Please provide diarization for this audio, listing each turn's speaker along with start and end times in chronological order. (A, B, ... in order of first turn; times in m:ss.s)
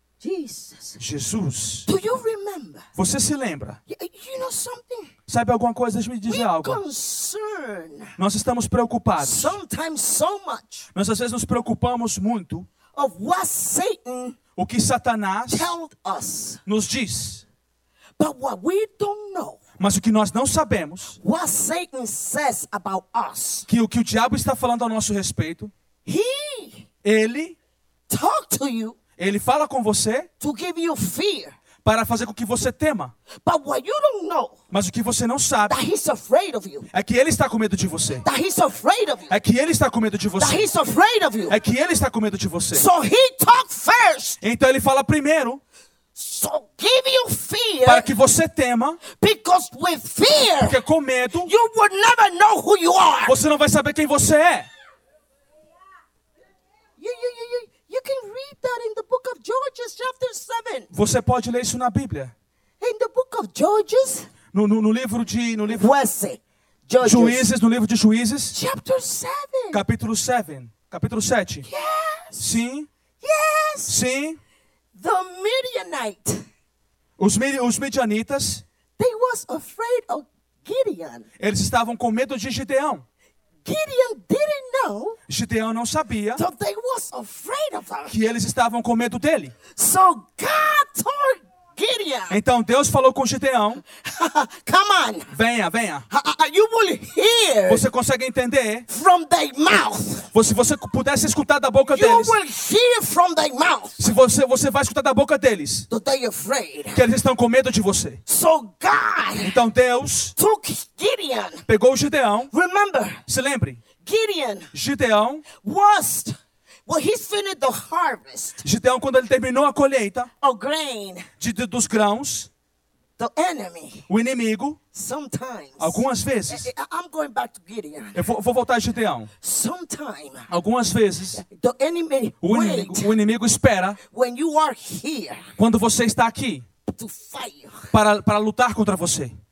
0:00.2-0:01.0 A
0:01.0-0:01.9 B
0:01.8-0:02.8 A
0:03.0-0:03.8 B
0:03.9-0:05.1 A
0:05.3-0:06.8 B
0:06.3-0:08.2 A
0:08.2-0:09.6 B
0:09.2-0:10.9 A
0:10.9-0:12.7 B
0:12.9-0:14.4 A
0:14.6-0:15.7 B
0:15.5-0:16.6 A
0:16.6-0:17.4 B
0:18.2-0:19.6 A
0:19.8-0:21.2 B
0:21.2-0:23.7 A
0:23.7-0:25.7 B
0:26.0-0:26.8 A
0:27.0-0:27.6 B
0:28.1-0:29.0 A
0:29.2-0:30.3 B
0:30.4-0:31.6 A
0:31.8-0:33.1 B
0:33.4-0:34.6 A
0:34.7-0:35.7 B
0:35.7-0:36.9 A
0:36.9-0:38.2 B
0:38.2-0:39.3 A
0:39.3-0:40.7 B
0:40.4-0:41.5 A
0:41.5-0:42.9 B
0:42.7-0:44.4 A
0:44.4-0:45.6 B
0:46.1-0:48.1 A
0:47.8-0:49.0 B
0:49.1-0:50.8 A
0:50.6-0:51.5 B
0:51.4-0:53.4 A
0:53.2-0:54.7 B
0:57.0-1:00.9 A
1:00.9-1:02.3 B
1:02.8-1:04.3 A
1:04.5-1:05.9 B
1:05.7-1:07.5 A
1:07.0-1:08.6 B
1:08.5-1:09.8 A
1:09.7-1:11.7 B
1:11.6-1:12.6 A
1:12.4-1:12.9 B
1:13.2-1:14.0 A
1:13.9-1:14.4 B
1:15.0-1:16.5 A
1:17.2-1:18.6 B
1:19.0-1:21.3 A
1:21.4-1:23.0 B
1:23.6-1:25.2 A
1:25.3-1:26.4 B
1:26.3-1:28.1 A
1:28.1-1:29.5 B
1:29.7-1:32.4 A
1:32.3-1:33.8 B
1:34.0-1:35.3 A
1:35.3-1:36.0 B
1:36.1-1:37.8 A
1:37.7-1:38.8 B
1:38.9-1:40.3 A
1:40.3-1:42.4 B
1:41.9-1:44.0 A
1:44.0-1:45.9 B
1:45.9-1:47.0 A
1:46.9-1:48.2 B
1:48.2-1:49.6 A
1:49.4-1:50.3 B
1:50.3-1:51.6 A
1:51.7-1:52.5 B
1:52.5-1:53.2 A
1:53.3-1:53.8 B
1:54.0-1:54.7 A
1:54.7-1:55.4 B
1:55.6-1:58.6 A
1:58.6-2:00.3 B
2:00.4-2:01.3 A
2:01.4-2:02.5 B
2:03.2-2:04.1 A
2:04.1-2:04.8 B
2:04.9-2:08.2 A
2:05.8-2:06.7 B
2:08.1-2:09.3 B
2:09.4-2:10.5 A
2:10.5-2:11.4 B
2:11.3-2:13.1 A
2:12.4-2:14.0 B
2:14.0-2:15.5 A
2:15.6-2:16.6 B
2:16.9-2:17.9 A
2:17.9-2:19.3 B